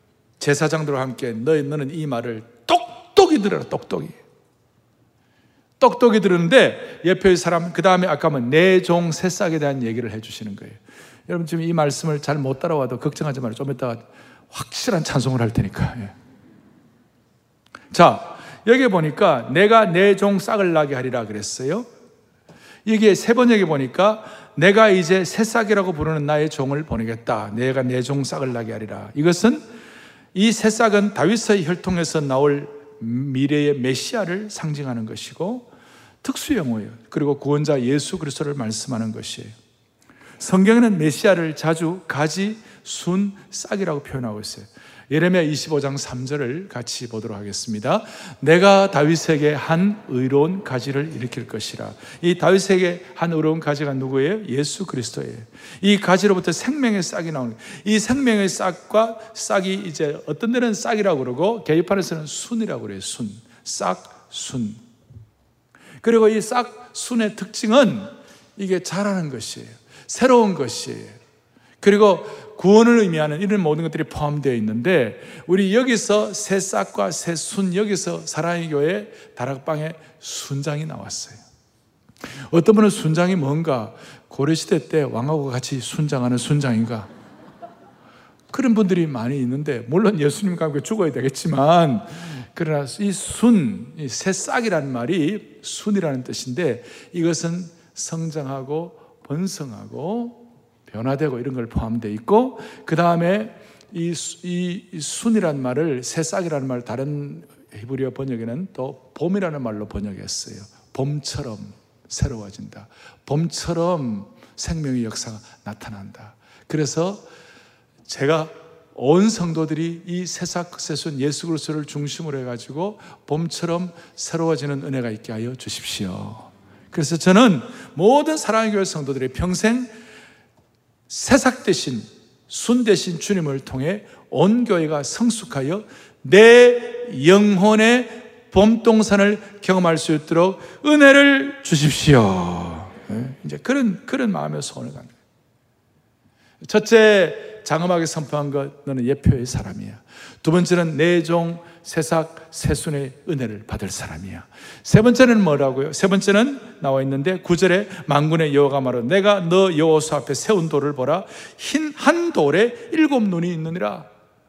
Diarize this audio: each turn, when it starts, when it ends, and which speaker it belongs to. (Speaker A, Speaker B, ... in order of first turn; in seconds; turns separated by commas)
Speaker A: 0.4-4.2, Speaker A: 5.8-16.1, Speaker A: 17.9-21.9, Speaker A: 22.8-29.6, Speaker A: 30.3-35.7, Speaker A: 36.2-39.5, Speaker A: 40.4-64.8, Speaker A: 66.0-71.2, Speaker A: 71.8-81.4, Speaker A: 82.5-87.1, Speaker A: 88.5-117.2, Speaker A: 118.1-129.9, Speaker A: 131.1-145.1, Speaker A: 146.6-164.1